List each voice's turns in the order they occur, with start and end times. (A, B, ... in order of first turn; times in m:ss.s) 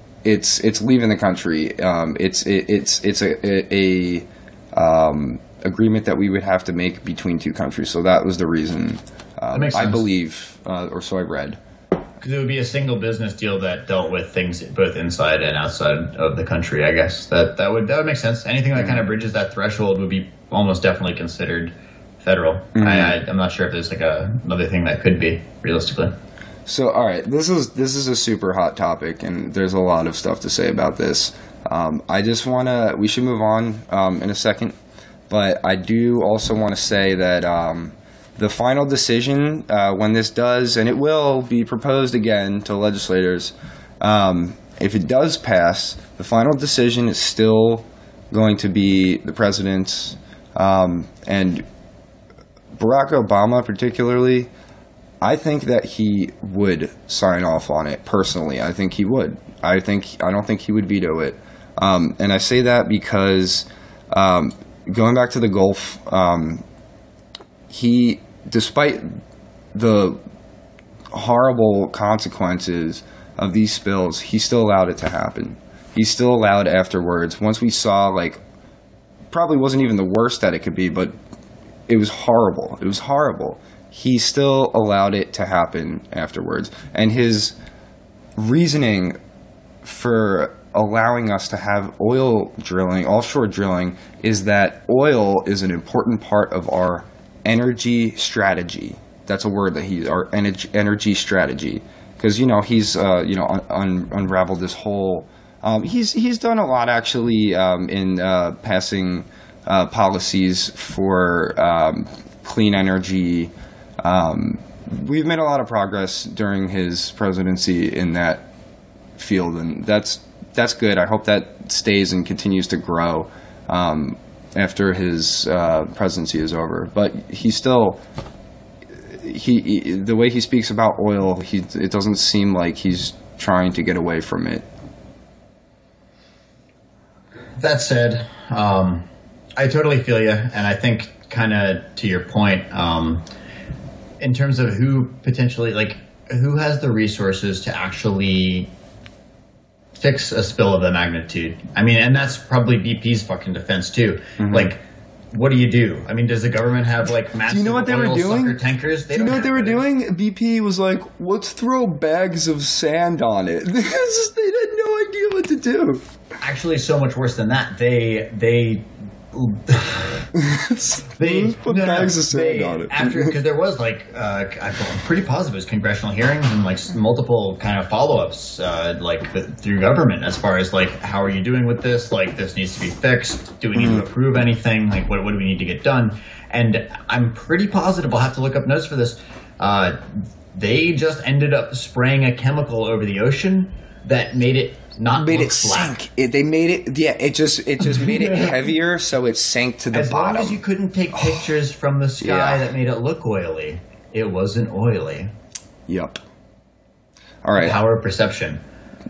0:00.2-0:11.6 A
0:09.5-0:10.0 B
0:12.2-0:26.1 B
0:18.8-0:19.0 A
0:22.7-0:23.2 A
0:26.6-0:34.8 A
0:35.3-0:51.7 A
0:52.8-0:54.5 A
0:55.2-1:06.6 A
1:07.7-1:09.1 A
1:09.7-1:10.2 A
1:11.1-1:18.4 A
1:19.3-1:21.1 A
1:21.9-1:27.6 A
1:28.4-1:29.2 A
1:29.8-1:58.4 A
1:59.2-2:08.0 A
2:09.0-2:14.6 A
2:17.6-2:19.0 B
2:19.6-2:23.2 B
2:24.2-2:28.7 B
2:30.0-2:34.8 B
2:34.4-2:34.7 A
2:35.3-2:39.8 B
2:37.5-2:38.6 A
2:39.1-2:46.0 A
2:46.4-2:50.3 B
2:50.3-2:53.3 A
2:51.2-3:15.9 B
3:03.8-3:04.0 A
3:15.2-3:20.6 A
3:17.9-3:18.5 B
3:19.9-3:25.3 B
3:21.1-3:21.5 A
3:22.2-3:22.7 A
3:25.9-3:26.2 A
3:27.4-3:27.8 A
3:27.6-3:28.6 B